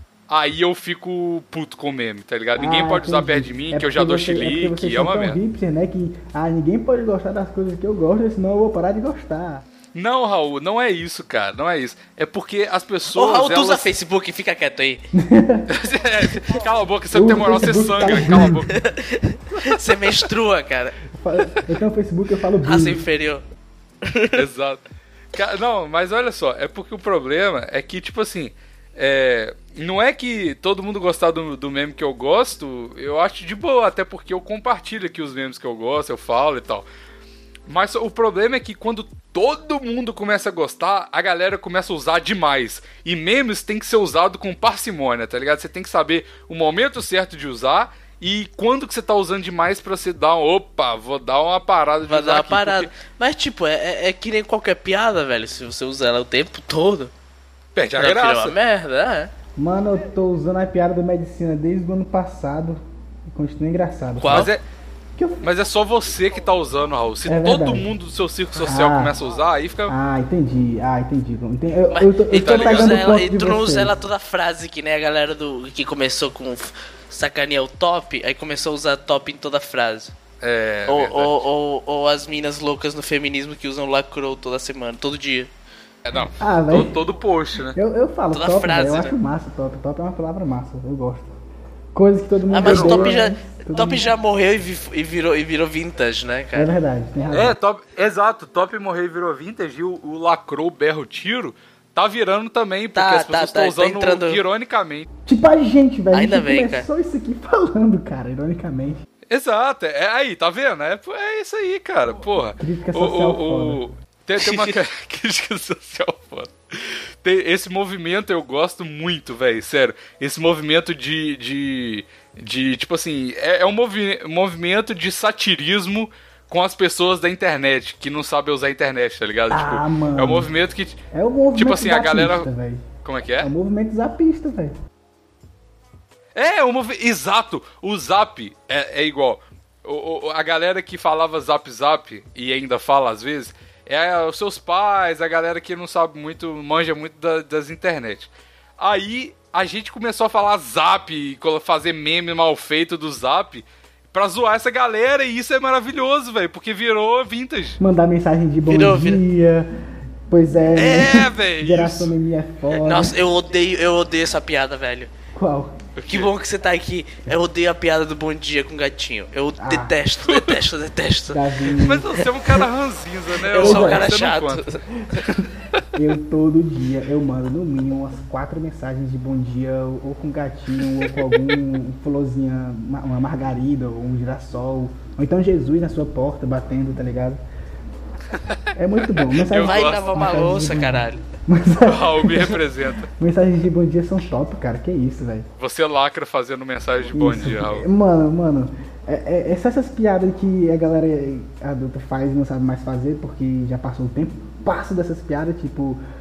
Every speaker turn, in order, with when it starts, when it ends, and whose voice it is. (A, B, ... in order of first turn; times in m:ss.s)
0:00.3-0:05.4 A
0:02.6-0:09.6 B
0:09.9-0:13.8 A
0:13.1-0:15.0 C
0:15.1-0:15.7 B
0:15.7-0:18.8 A
0:17.1-0:18.6 B
0:18.7-0:21.0 C
0:21.1-0:23.0 B
0:22.6-0:23.4 C
0:24.0-0:24.4 C
0:24.3-0:24.8 A
0:25.3-0:36.8 A
0:37.7-0:52.9 A
0:52.0-0:57.1 C
0:57.7-0:58.5 A
0:58.0-0:59.3 C
0:59.6-1:04.5 B
1:04.2-1:04.5 C
1:04.2-1:04.6 A
1:05.2-1:05.4 B
1:05.4-1:09.9 A
1:07.2-1:07.9 B
1:08.6-1:09.2 B
1:09.9-1:14.0 B
1:11.9-1:20.1 C
1:12.3-1:13.0 A
1:20.4-1:21.5 A
1:20.9-1:25.5 C
1:26.0-1:27.8 A
1:26.4-1:27.0 B
1:27.7-1:31.3 B
1:28.3-1:29.1 C
1:31.9-1:34.1 B
1:32.5-1:36.7 C
1:32.6-1:33.2 A
1:36.5-1:37.6 B
1:37.3-1:45.1 A
1:42.9-1:44.4 C
1:45.2-1:49.0 B
1:46.1-1:46.8 C
1:49.3-2:11.0 A
1:52.6-1:53.8 B
1:54.4-1:54.7 C
2:09.5-2:10.5 B
2:11.1-2:12.8 B
2:11.5-2:12.5 A
2:13.0-2:13.5 A
2:13.4-2:14.7 B
2:16.3-2:37.8 A
2:37.8-2:39.7 B
2:38.7-2:39.2 C
2:40.3-2:43.2 B
2:40.7-2:42.1 A
2:42.7-2:45.1 C
2:45.3-2:45.8 B
2:46.0-2:46.3 A
2:46.1-2:51.4 C
2:49.6-2:50.0 B
2:50.2-2:50.6 A
2:51.3-2:52.2 B
2:51.8-2:54.7 A
2:53.5-2:55.2 C
2:53.5-2:54.2 B
2:55.3-2:55.8 A
2:55.9-3:07.4 B
3:08.3-3:10.0 A
3:08.8-3:12.6 B
3:09.5-3:11.2 C
3:11.8-3:13.1 A
3:13.1-3:15.5 B
3:15.6-3:17.9 A
3:17.1-3:26.0 B